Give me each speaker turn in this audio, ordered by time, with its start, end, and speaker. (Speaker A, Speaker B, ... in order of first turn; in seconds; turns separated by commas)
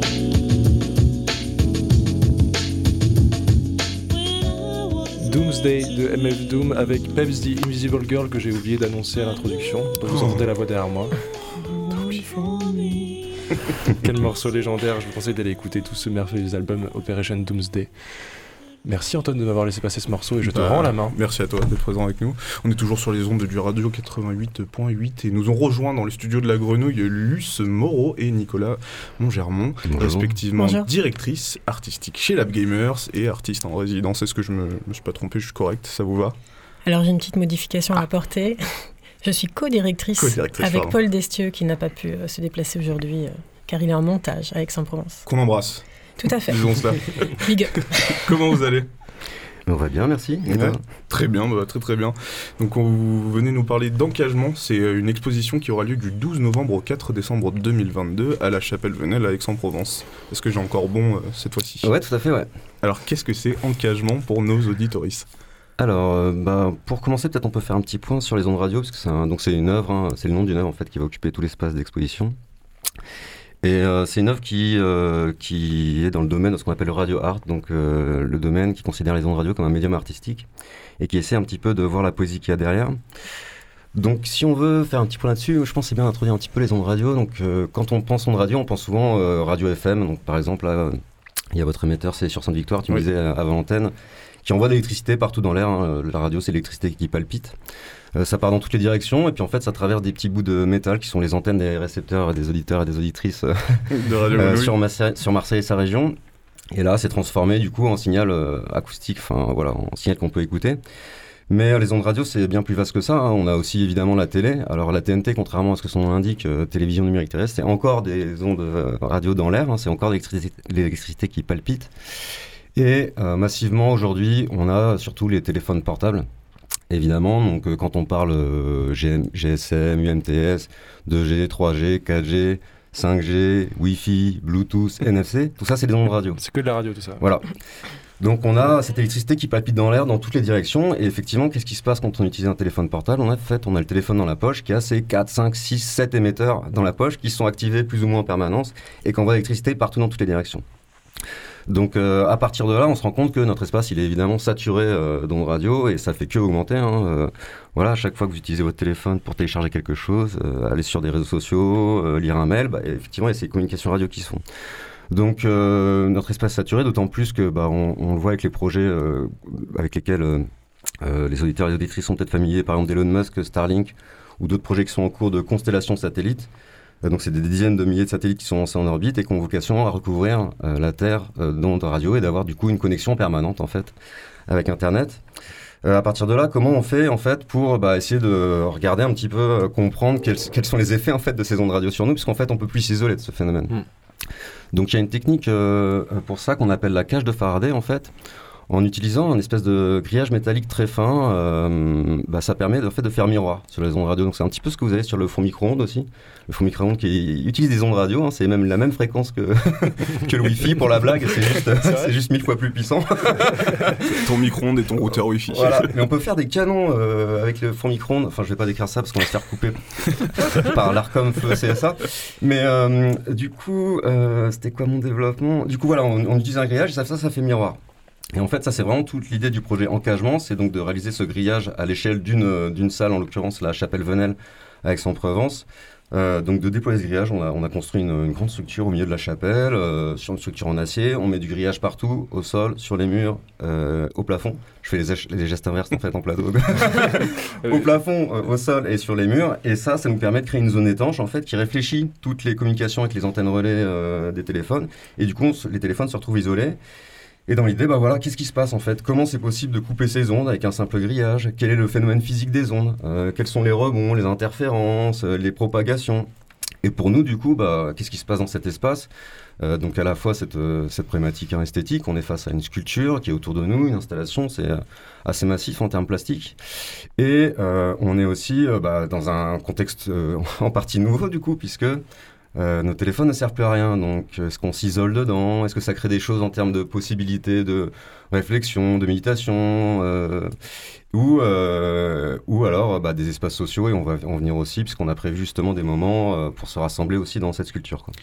Speaker A: 5.2-11.1, Speaker B: 10.1-10.4, Speaker A: 14.0-17.9, Speaker A: 18.8-21.1, Speaker B: 20.4-36.4, Speaker C: 29.9-30.3, Speaker D: 30.5-30.9, Speaker D: 36.9-38.6, Speaker D: 39.2-45.2, Speaker B: 40.2-41.0, Speaker B: 45.3-45.9, Speaker D: 46.2-48.3, Speaker B: 46.4-48.9, Speaker C: 49.7-50.8, Speaker B: 50.5-61.9, Speaker C: 61.8-62.5, Speaker B: 62.8-65.3, Speaker C: 65.8-72.4, Speaker C: 73.6-80.5, Speaker C: 81.0-83.0, Speaker C: 84.0-91.0, Speaker C: 91.5-93.9, Speaker C: 94.5-97.5, Speaker C: 98.2-106.2, Speaker B: 103.9-104.8, Speaker C: 106.7-110.8, Speaker C: 111.5-121.9, Speaker C: 122.8-126.3, Speaker C: 126.9-136.4, Speaker A: 136.4-137.2, Speaker C: 137.2-137.5, Speaker C: 138.2-150.6, Speaker C: 151.7-164.4, Speaker C: 165.1-170.5, Speaker C: 171.0-176.5, Speaker C: 177.0-183.9, Speaker C: 184.5-185.2, Speaker C: 185.8-193.8, Speaker C: 194.7-198.1, Speaker C: 198.7-213.8, Speaker B: 214.2-215.9, Speaker C: 215.5-227.8, Speaker C: 228.3-256.8, Speaker C: 257.5-266.3, Speaker C: 266.8-269.1, Speaker C: 269.6-276.6, Speaker C: 277.2-282.0, Speaker C: 282.6-290.5, Speaker C: 291.1-298.1